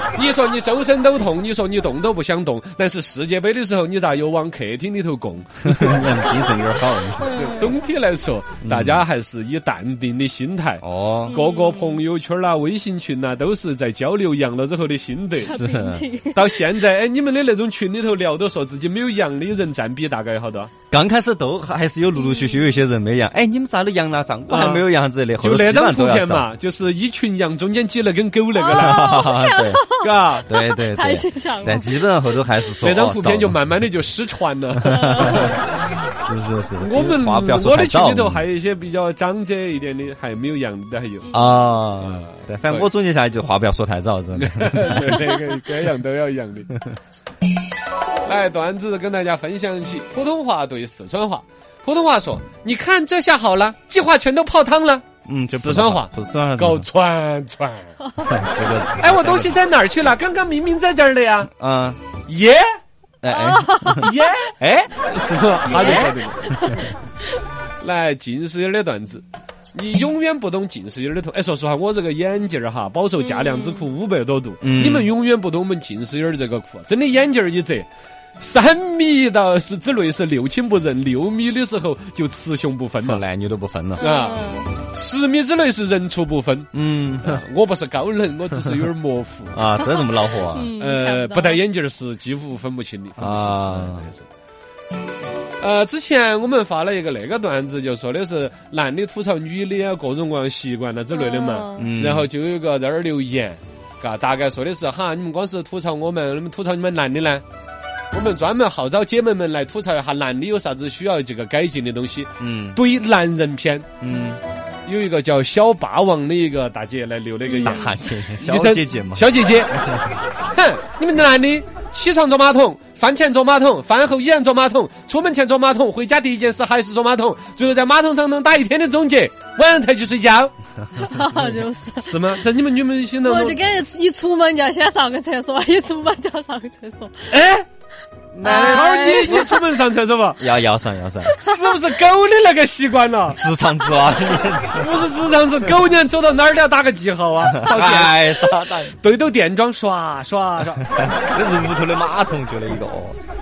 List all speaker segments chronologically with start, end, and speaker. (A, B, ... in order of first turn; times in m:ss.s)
0:00.1-0:06.1 A
0:05.6-0:07.4 B
0:07.2-0:07.8 C
0:07.3-0:15.5 A
0:08.6-0:09.0 B
0:10.8-0:11.4 B
0:11.3-0:12.0 C
0:15.4-0:16.6 C
0:15.4-0:16.0 B
0:16.3-0:20.7 A
0:20.9-0:26.5 B
0:22.1-0:22.7 C
0:24.5-0:24.9 A
0:25.4-0:29.3 A
0:28.6-0:32.0 C
0:28.7-0:29.9 B
0:30.0-0:30.5 A
0:30.4-0:33.6 B
0:32.8-0:35.6 A
0:34.8-0:35.6 B
0:34.8-0:35.5 C
0:36.2-0:38.4 B
0:36.8-0:41.4 A
0:41.3-0:45.2 B
0:42.0-0:42.9 A
0:44.4-0:46.7 A
0:48.2-0:57.9 A
0:55.3-0:56.8 B
0:58.2-0:59.6 B
0:59.0-1:01.5 A
1:01.5-1:02.1 B
1:02.2-1:02.8 A
1:03.2-1:05.0 B
1:03.3-1:04.1 C
1:04.0-1:06.5 A
1:05.7-1:06.9 C
1:05.7-1:06.8 B
1:07.8-1:23.2 A
1:13.2-1:13.9 C
1:14.6-1:15.1 B
1:23.0-1:24.1 B
1:24.0-1:24.7 C
1:24.0-1:26.7 A
1:26.7-1:27.4 B
1:27.2-1:29.6 A
1:29.5-1:30.7 B
1:29.8-1:31.6 C
1:30.8-1:34.2 A
1:33.2-1:34.1 B
1:35.6-1:47.4 A
1:41.1-1:41.9 C
1:41.8-1:42.3 B
1:48.1-1:53.9 A
1:52.4-1:52.8 B
1:54.0-1:54.4 B
1:54.8-1:59.7 A
1:57.4-1:57.9 C
1:57.6-1:59.3 B
2:00.5-2:10.5 A
2:11.0-2:12.1 C
2:12.0-2:13.6 A
2:13.2-2:17.2 C
2:17.3-2:17.7 A
2:18.3-2:19.5 B
2:18.4-2:19.5 C
2:18.4-2:20.4 A
2:20.4-2:21.4 B
2:21.4-2:23.4 A
2:23.3-2:25.0 B
2:24.8-2:30.9 A
2:27.4-2:29.0 B
2:31.0-2:33.2 B